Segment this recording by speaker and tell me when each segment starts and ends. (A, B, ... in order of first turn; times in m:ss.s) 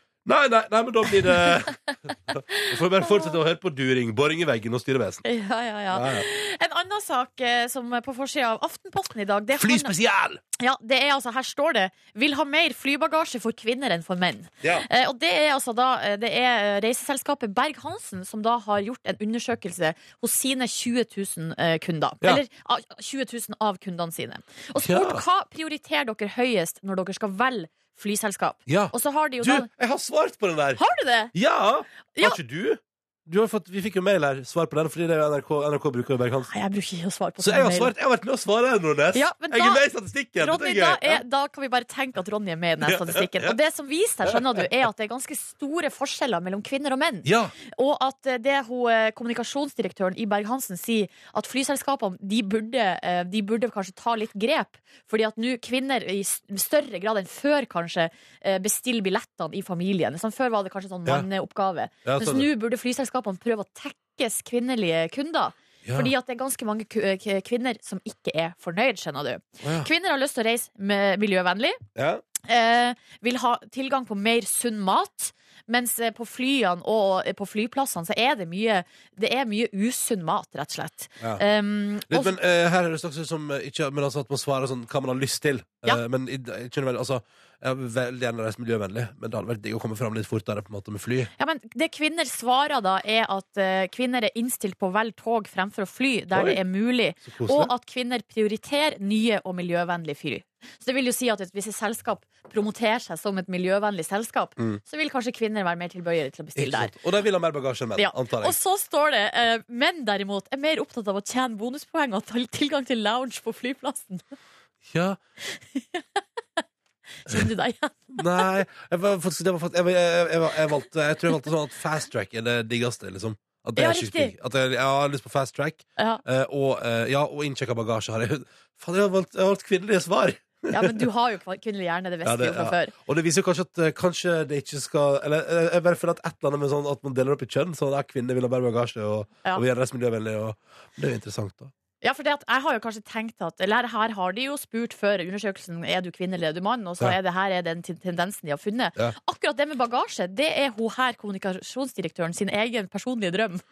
0:00.2-0:05.2 A
0:02.5-0:03.3 B
0:05.2-0:09.9 B
0:05.9-0:06.2 A
0:09.6-0:10.4 A
0:10.6-0:29.7 B
0:14.6-0:14.9 A
0:24.8-0:25.2 A
0:28.7-0:30.8 A
0:30.8-0:31.3 B
0:31.3-0:36.5 A
0:32.1-0:32.4 B
0:36.5-0:37.9 B
0:37.4-0:41.2 A
0:39.1-0:39.8 B
0:40.4-1:11.8 B
0:42.8-0:43.6 A
0:44.2-0:44.6 A
0:47.2-0:47.5 A
1:02.0-1:02.5 A
1:05.8-1:06.1 A
1:09.6-1:09.9 A
1:12.0-1:12.2 A
1:12.4-1:22.3 B
1:22.1-1:31.3 A
1:31.4-1:46.9 B
1:36.3-1:36.6 A
1:37.2-1:37.7 A
1:46.6-1:48.6 A
1:48.0-1:54.3 B
1:54.8-1:55.2 A
1:55.4-1:56.2 B
1:57.2-1:58.4 B
1:58.2-2:11.1 A
2:03.8-2:04.3 B
2:06.0-2:06.2 B
2:10.7-2:12.9 B
2:12.2-2:21.7 A
2:22.0-2:33.6 B